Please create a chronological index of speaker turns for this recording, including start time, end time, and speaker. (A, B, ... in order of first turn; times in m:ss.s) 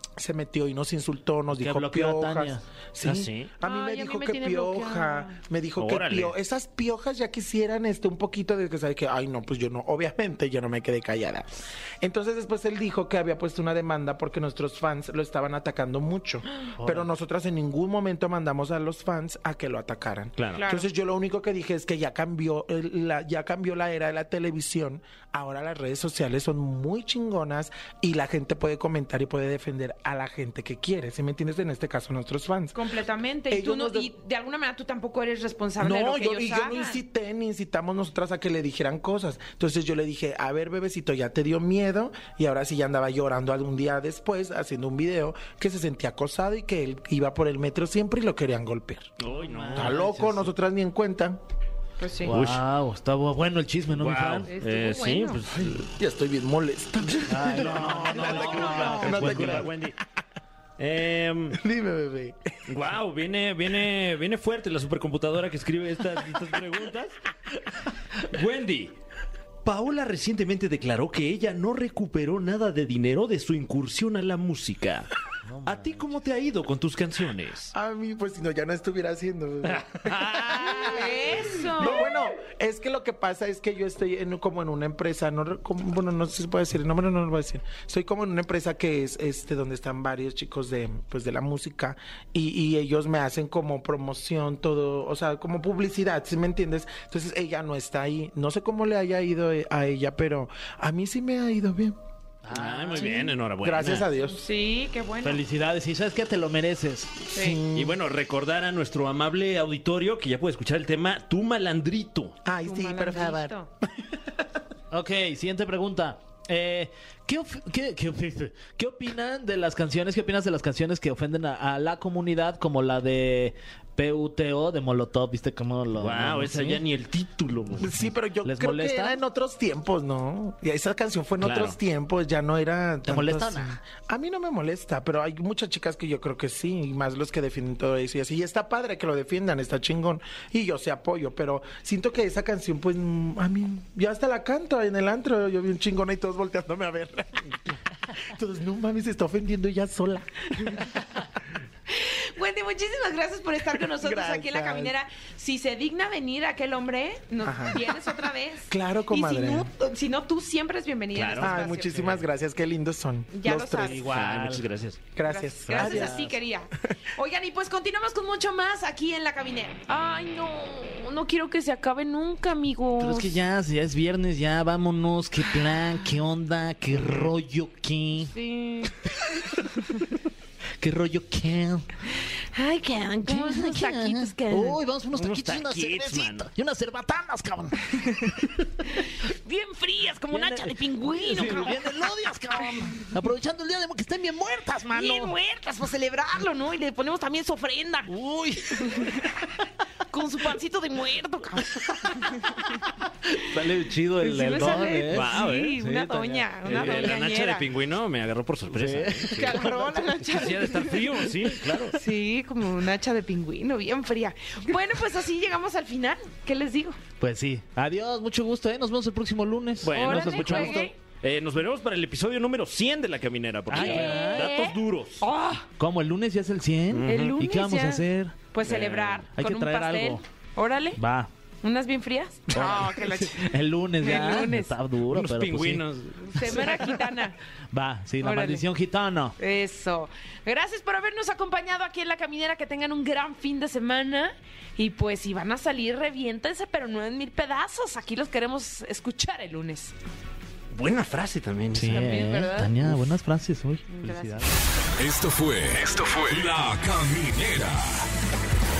0:00.2-0:32.8 A
0:01.5-0:02.6 B
0:03.0-0:03.5 C
0:03.6-0:05.4 D
0:05.8-0:06.3 C
0:16.8-0:17.1 B
0:20.4-0:20.6 C
0:20.6-0:20.9 D
0:32.7-0:37.0 D
0:33.5-0:34.1 A
0:35.8-0:49.1 A
0:49.2-0:50.0 C
0:49.3-0:50.5 B
0:49.8-0:51.4 A
0:52.0-0:52.4 D
0:52.2-0:54.5 B
0:52.3-0:52.6 C
0:54.0-0:55.8 C
0:54.5-0:55.4 D
0:55.5-0:59.8 A
0:57.3-0:59.7 B
0:57.6-1:00.0 C
0:58.3-0:59.2 D
1:00.8-1:01.6 C
1:01.5-1:02.6 A
1:02.7-1:07.2 C
1:08.2-1:09.0 C
1:09.6-1:15.1 C
1:15.5-1:16.2 B
1:15.6-1:17.7 C
1:17.7-1:42.0 A
1:20.0-1:20.8 C
1:20.5-1:22.0 D
1:42.4-1:43.3 B
1:42.5-1:44.1 C
1:43.6-1:44.4 A
1:44.2-1:45.4 D
1:45.2-1:47.1 B
1:47.3-1:47.6 D
1:47.3-1:48.0 A
1:47.7-1:52.4 C
1:52.4-1:54.2 A
1:52.6-1:53.7 D
1:54.9-2:06.8 B
2:06.0-2:07.9 C
2:07.8-2:31.0 A
2:08.4-2:09.2 B
2:11.4-2:11.8 C
2:13.1-2:13.8 B
2:31.9-2:42.0 D
2:33.8-2:35.0 A
2:37.4-2:38.0 A
2:38.7-2:39.7 A
2:41.1-2:42.2 C
2:41.4-2:44.0 A
2:43.3-2:44.0 D
2:43.8-2:44.7 B
2:44.1-2:45.0 C
2:45.2-2:46.3 A
2:45.2-2:53.4 D
2:45.7-2:46.3 B
2:53.0-2:58.3 B
2:58.2-2:59.0 D
2:59.8-3:00.0 D
3:00.8-3:01.9 B
3:02.1-3:04.8 D
3:03.2-3:08.6 B
3:05.1-3:06.5 C
3:08.8-3:12.1 D
3:10.3-3:15.4 B
3:14.9-3:18.1 D
3:18.1-3:19.3 B
3:18.7-3:22.8 D
3:23.3-3:27.1 B
3:24.2-3:27.6 D
3:25.1-3:25.8 C
3:26.6-3:32.0 C
3:28.7-3:30.2 B
3:29.3-3:37.0 D
3:37.2-3:40.9 B
3:39.8-3:45.2 C
3:39.9-3:40.9 D
3:43.7-3:44.6 B
3:43.7-3:45.6 D
3:45.8-3:48.4 B
3:46.9-3:47.4 C
3:47.0-3:51.0 D
3:48.6-3:49.2 C
3:49.3-3:50.2 B
3:51.0-3:51.3 B
3:51.6-3:54.8 D
3:52.5-3:55.8 B
3:55.1-3:56.9 C
3:56.3-3:57.4 D
3:56.4-3:56.8 B
3:57.7-3:59.4 B
3:58.2-3:58.6 D
3:59.4-4:09.9 D
4:10.7-4:12.1 C
4:11.7-4:14.6 B
4:11.8-4:13.0 D
4:13.9-4:14.6 D
4:15.0-4:18.0 E